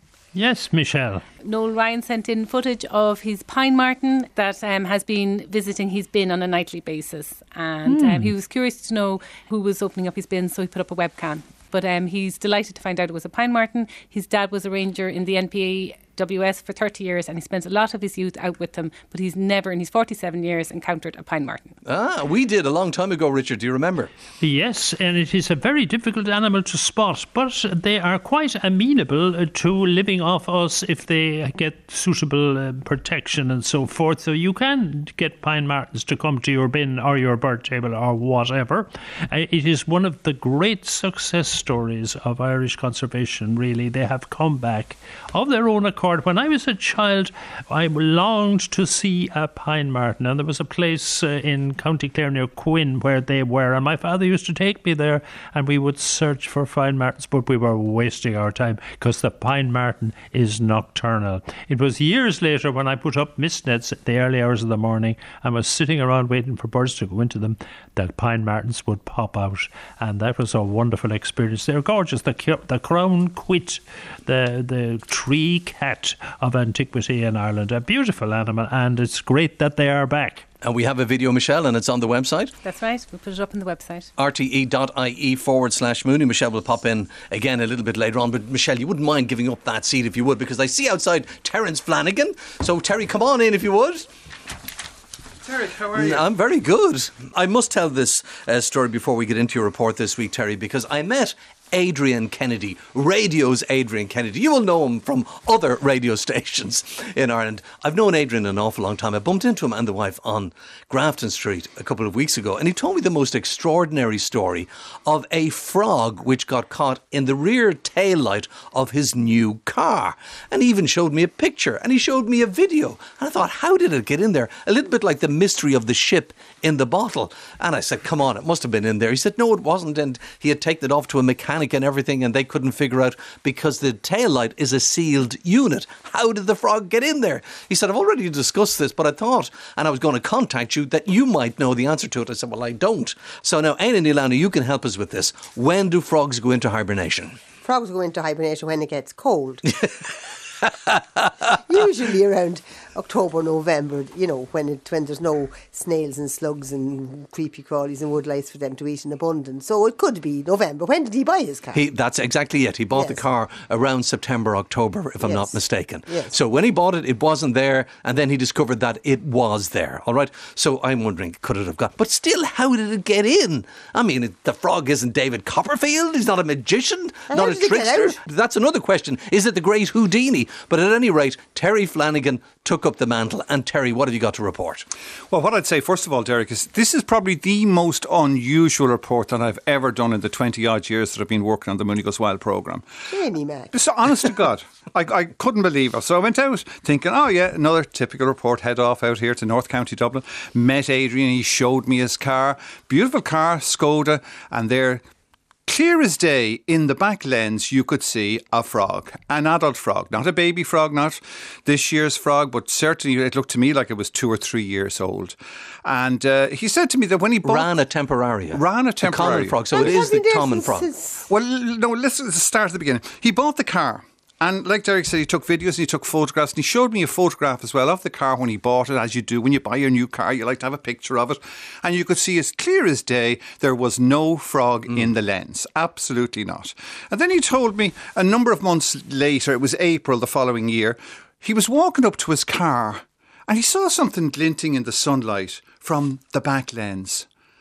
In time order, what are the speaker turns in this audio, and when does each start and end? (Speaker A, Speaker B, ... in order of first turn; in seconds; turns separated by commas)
Speaker A: 0.3-1.2, Speaker B: 1.4-21.8, Speaker A: 7.8-8.3, Speaker C: 21.9-24.1, Speaker A: 24.4-80.5, Speaker C: 80.6-82.5, Speaker B: 82.6-84.1, Speaker C: 84.2-94.1, Speaker D: 95.4-96.3, Speaker C: 95.9-147.4, Speaker E: 147.6-149.8, Speaker E: 151.5-161.8, Speaker C: 161.7-184.9, Speaker E: 162.9-163.2, Speaker E: 165.2-166.3, Speaker E: 177.3-178.2, Speaker D: 185.3-192.9, Speaker E: 193.1-193.7, Speaker D: 193.7-205.0, Speaker D: 205.7-217.7, Speaker C: 217.4-220.9, Speaker D: 218.5-219.8, Speaker E: 219.7-221.3, Speaker D: 221.3-247.3